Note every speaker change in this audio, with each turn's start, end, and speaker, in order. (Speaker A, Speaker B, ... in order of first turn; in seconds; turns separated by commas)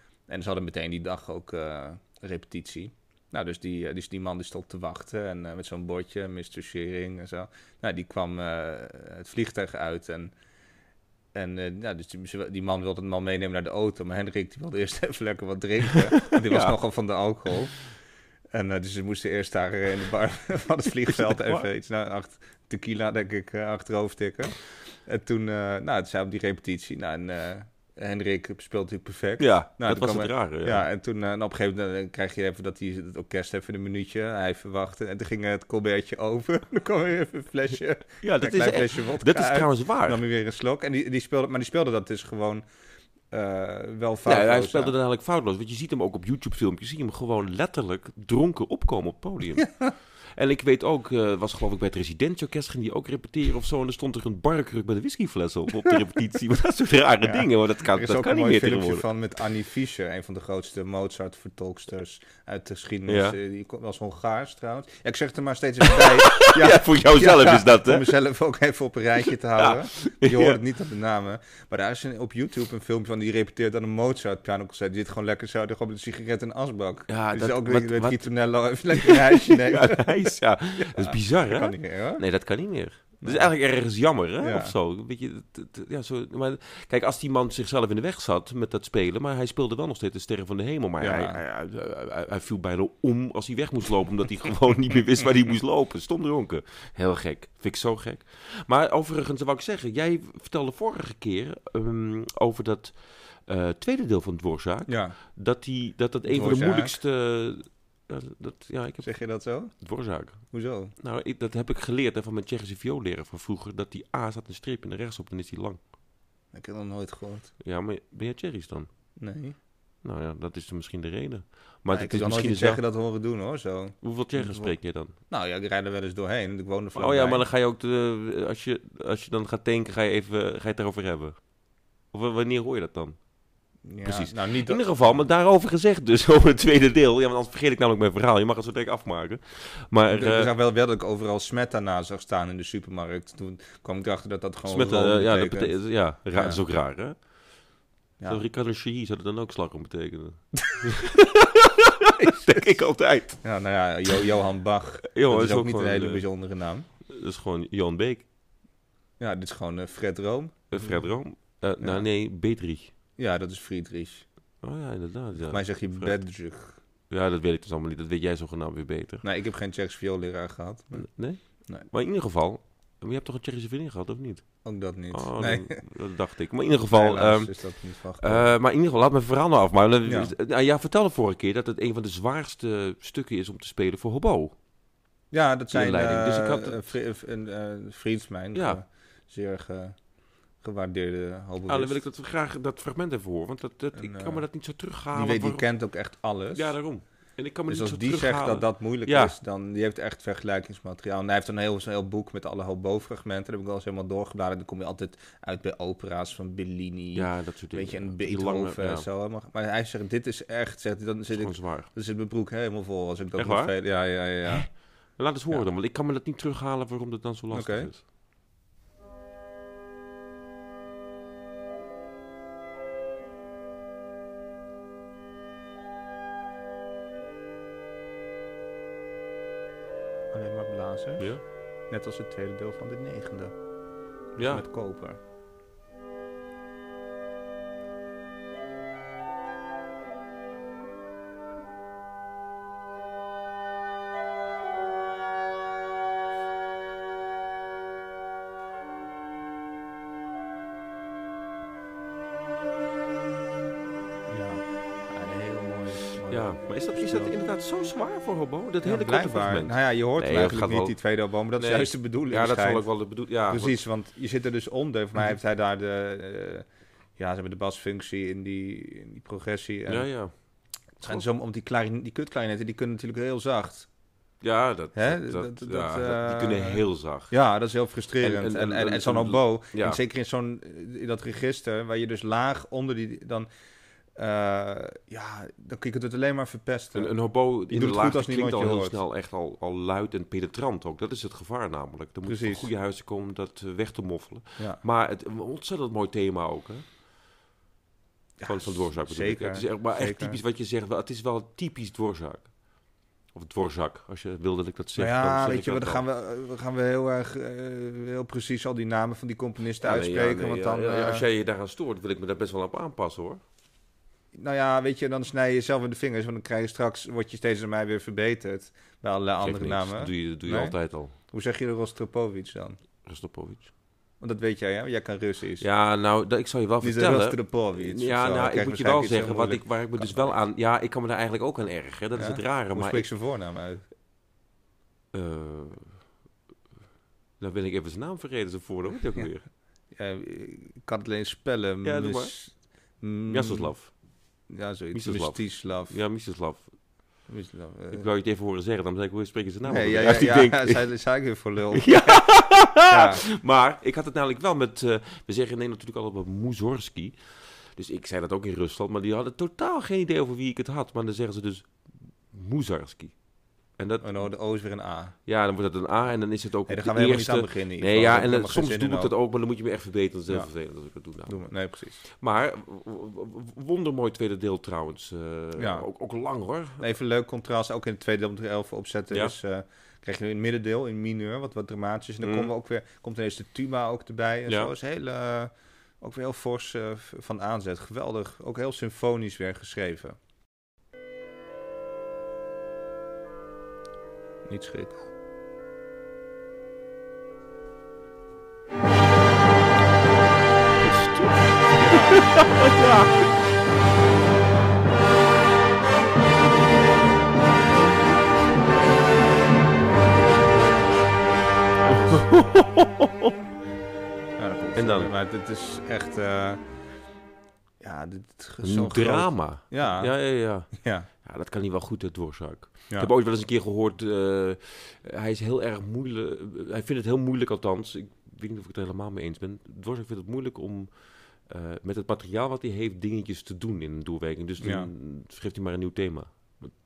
Speaker A: 0.3-10.3, Speaker A: 11.3-17.7, Speaker B: 16.2-16.8, Speaker A: 18.5-42.6, Speaker B: 21.1-21.7, Speaker B: 29.4-30.8, Speaker B: 38.2-40.2, Speaker A: 43.3-45.0, Speaker B: 44.2-49.7, Speaker A: 49.6-49.9, Speaker B: 50.4-59.0, Speaker A: 57.2-82.2, Speaker B: 63.1-63.4, Speaker B: 65.8-68.1, Speaker B: 69.6-70.6, Speaker B: 77.1-78.2, Speaker B: 78.9-109.1, Speaker A: 83.2-83.5, Speaker A: 84.4-84.7, Speaker A: 91.0-91.4, Speaker A: 104.9-105.2, Speaker A: 106.3-107.0, Speaker A: 109.0-109.7, Speaker B: 109.8-110.4, Speaker A: 110.5-110.9, Speaker B: 111.0-115.8, Speaker A: 116.5-117.5, Speaker B: 117.6-118.9, Speaker A: 119.2-119.5, Speaker B: 120.0-122.8, Speaker A: 121.9-124.7, Speaker B: 124.0-125.1, Speaker A: 125.3-127.4, Speaker B: 126.9-131.4, Speaker B: 132.1-133.2, Speaker A: 133.8-135.2, Speaker B: 134.0-140.5, Speaker A: 140.1-146.6, Speaker B: 144.7-147.2, Speaker B: 148.2-153.4, Speaker A: 152.3-152.7, Speaker A: 153.4-156.8, Speaker B: 155.1-156.2, Speaker B: 157.1-158.2, Speaker A: 159.2-161.0, Speaker B: 160.7-162.9, Speaker A: 161.8-162.1, Speaker A: 163.2-164.2, Speaker B: 164.6-166.2, Speaker A: 165.4-166.8, Speaker B: 167.1-169.2, Speaker A: 169.2-171.1, Speaker B: 170.9-174.4, Speaker A: 174.6-175.8, Speaker B: 175.1-177.5, Speaker A: 176.9-178.5, Speaker B: 178.2-184.5, Speaker A: 180.0-180.3, Speaker A: 185.3-189.9, Speaker B: 185.7-186.9, Speaker A: 190.6-192.0, Speaker B: 191.7-195.6, Speaker A: 193.9-194.4, Speaker A: 195.1-196.8, Speaker B: 196.5-199.3, Speaker A: 197.7-214.7, Speaker B: 207.1-209.1, Speaker B: 211.3-211.9, Speaker B: 213.4-213.7, Speaker B: 214.4-218.0, Speaker A: 217.5-217.9, Speaker A: 230.3-231.3, Speaker A: 231.9-233.6, Speaker B: 234.3-234.6, Speaker A: 234.3-235.2, Speaker A: 254.3-257.3, Speaker B: 256.3-260.9, Speaker A: 258.8-262.9, Speaker B: 261.6-263.8, Speaker A: 263.5-266.6, Speaker A: 267.2-270.1, Speaker B: 269.9-270.3, Speaker A: 271.0-273.9, Speaker B: 274.4-277.3, Speaker A: 274.9-283.5, Speaker B: 278.2-280.0, Speaker A: 284.1-287.1, Speaker B: 286.9-296.8, Speaker A: 287.7-289.0, Speaker A: 292.2-292.7, Speaker A: 298.4-300.4, Speaker B: 298.4-302.5, Speaker B: 303.3-306.0, Speaker A: 305.0-311.3, Speaker B: 309.8-313.4, Speaker A: 314.3-322.8, Speaker B: 319.4-321.1, Speaker B: 323.0-323.7, Speaker A: 324.2-325.6, Speaker B: 325.6-333.1, Speaker A: 326.8-330.3, Speaker A: 332.1-333.8, Speaker B: 335.1-336.0, Speaker B: 337.4-339.5, Speaker A: 339.9-343.7, Speaker B: 341.8-342.3, Speaker B: 343.3-343.9, Speaker A: 344.5-346.0, Speaker B: 344.9-346.7, Speaker A: 347.3-348.1, Speaker B: 347.9-350.9, Speaker A: 349.7-352.3, Speaker B: 351.7-357.2, Speaker A: 352.9-353.2, Speaker B: 357.7-363.1, Speaker B: 363.8-364.2, Speaker A: 364.0-365.1, Speaker B: 365.2-371.4, Speaker A: 366.7-369.1, Speaker A: 371.3-372.0, Speaker B: 372.0-376.8, Speaker A: 375.6-375.9, Speaker A: 376.8-390.2, Speaker B: 382.2-382.5, Speaker B: 384.5-384.7, Speaker A: 394.4-395.1, Speaker B: 400.8-403.3, Speaker A: 401.7-402.5, Speaker B: 411.8-413.3, Speaker A: 411.9-412.2, Speaker A: 414.4-416.6, Speaker B: 414.8-415.1, Speaker A: 417.8-420.1, Speaker B: 418.6-436.7, Speaker A: 420.7-421.1, Speaker A: 434.6-434.9